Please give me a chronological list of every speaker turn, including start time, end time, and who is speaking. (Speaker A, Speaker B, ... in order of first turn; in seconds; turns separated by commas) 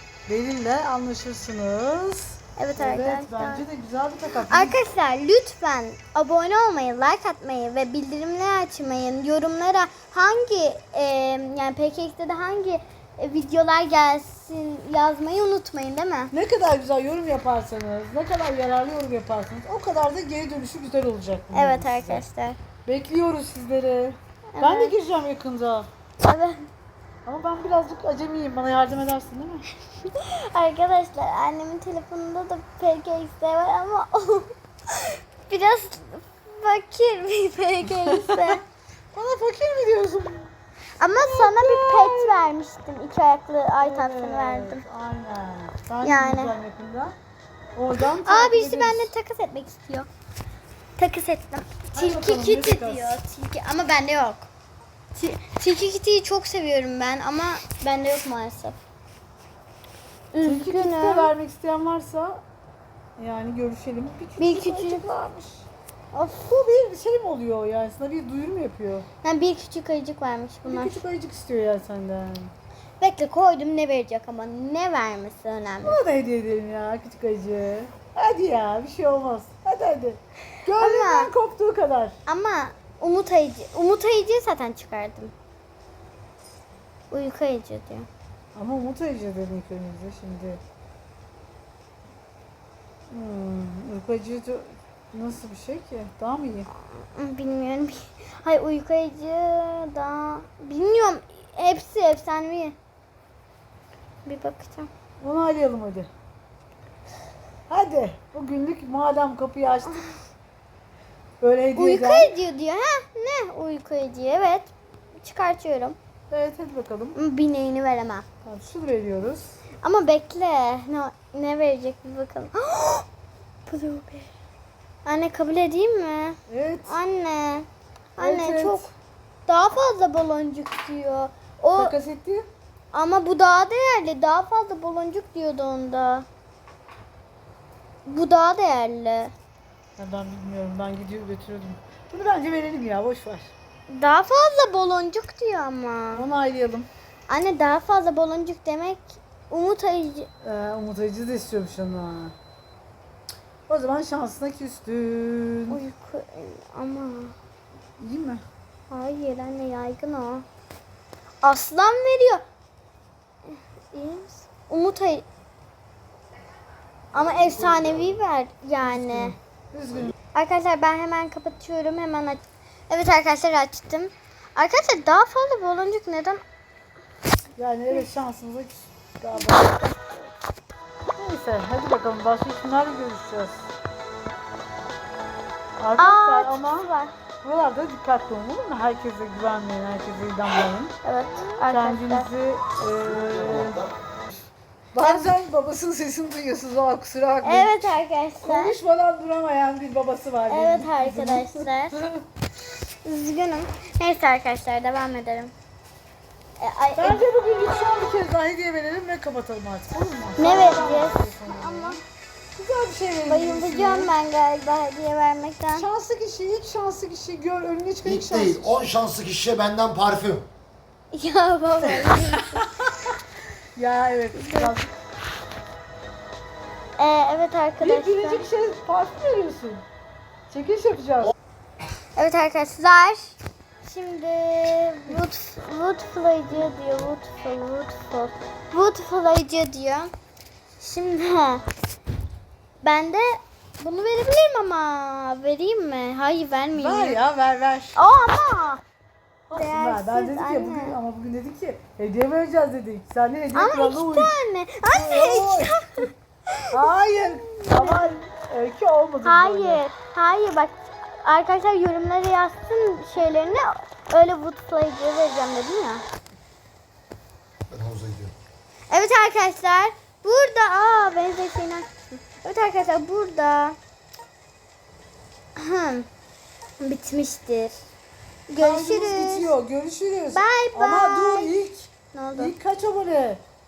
Speaker A: 0.3-4.8, Speaker B: 2.6-3.6, Speaker B: 4.5-16.3, Speaker A: 16.3-22.2, Speaker B: 21.5-22.6, Speaker A: 22.9-25.9, Speaker B: 24.5-24.9, Speaker B: 26.2-26.7, Speaker A: 27.2-29.7, Speaker B: 30.1-38.6, Speaker A: 38.1-38.6, Speaker A: 39.1-40.5, Speaker B: 41.0-44.8, Speaker A: 41.0-42.5, Speaker A: 43.8-47.1, Speaker B: 46.0-46.5, Speaker A: 47.8-49.1, Speaker B: 48.2-50.1, Speaker B: 51.0-54.5, Speaker A: 51.9-53.2, Speaker B: 55.1-58.8, Speaker B: 60.3-61.3, Speaker A: 60.4-62.4, Speaker A: 63.2-65.7, Speaker B: 64.4-65.1, Speaker B: 66.1-66.5, Speaker A: 66.5-69.1, Speaker B: 69.2-71.0, Speaker A: 70.7-72.5, Speaker B: 73.0-76.0, Speaker A: 75.8-82.2, Speaker B: 80.7-81.3, Speaker B: 82.3-85.3, Speaker B: 87.1-88.1, Speaker A: 88.5-90.6, Speaker A: 93.1-96.7, Speaker B: 96.8-102.8, Speaker B: 104.3-104.9, Speaker A: 105.2-106.1, Speaker A: 107.7-110.1, Speaker A: 111.4-112.3, Speaker B: 111.8-116.0, Speaker A: 116.3-117.2, Speaker B: 117.2-118.3, Speaker A: 118.5-119.6, Speaker B: 119.8-123.1, Speaker B: 123.7-124.3, Speaker B: 125.0-128.9, Speaker A: 126.5-127.0, Speaker A: 128.2-128.9, Speaker B: 129.5-131.9, Speaker A: 131.8-132.5, Speaker B: 132.9-136.3, Speaker B: 138.1-139.3, Speaker A: 140.0-143.5, Speaker B: 143.9-146.2, Speaker A: 146.1-146.9, Speaker B: 147.3-150.3, Speaker A: 150.4-152.3, Speaker A: 153.7-155.8, Speaker B: 155.7-157.3, Speaker A: 158.0-158.4, Speaker B: 158.9-160.5, Speaker B: 161.4-162.4, Speaker B: 163.5-165.2, Speaker B: 167.1-169.3, Speaker A: 168.8-170.1, Speaker B: 170.3-176.4, Speaker A: 177.6-180.2, Speaker A: 181.2-183.7, Speaker A: 185.8-186.9, Speaker B: 186.0-187.1, Speaker A: 187.4-191.0, Speaker B: 191.0-192.3, Speaker A: 191.7-193.9, Speaker A: 194.9-202.2, Speaker B: 197.4-198.8, Speaker B: 200.5-202.0, Speaker B: 203.1-205.5, Speaker B: 206.6-207.2, Speaker A: 207.0-212.0, Speaker B: 210.4-212.0, Speaker A: 212.6-214.1, Speaker B: 213.3-215.9, Speaker A: 215.8-218.8, Speaker C: 218.3-220.4, Speaker B: 221.1-222.7, Speaker A: 222.0-223.2, Speaker A: 223.8-224.9, Speaker B: 224.3-224.7, Speaker B: 227.0-228.5, Speaker A: 227.8-229.8, Speaker A: 230.5-231.3, Speaker B: 232.2-240.1, Speaker B: 240.8-241.6, Speaker B: 242.8-247.2, Speaker A: 246.7-248.0, Speaker B: 248.0-248.8, Speaker A: 249.5-254.3, Speaker B: 249.5-250.9, Speaker B: 253.6-256.8, Speaker A: 254.8-256.1, Speaker A: 256.7-259.8, Speaker B: 257.5-258.0, Speaker B: 259.2-266.0, Speaker C: 267.7-268.3, Speaker B: 268.9-273.8, Speaker B: 275.6-276.1, Speaker B: 276.8-277.8, Speaker B: 278.5-279.5, Speaker A: 278.6-283.4, Speaker B: 280.3-281.6, Speaker B: 282.1-282.5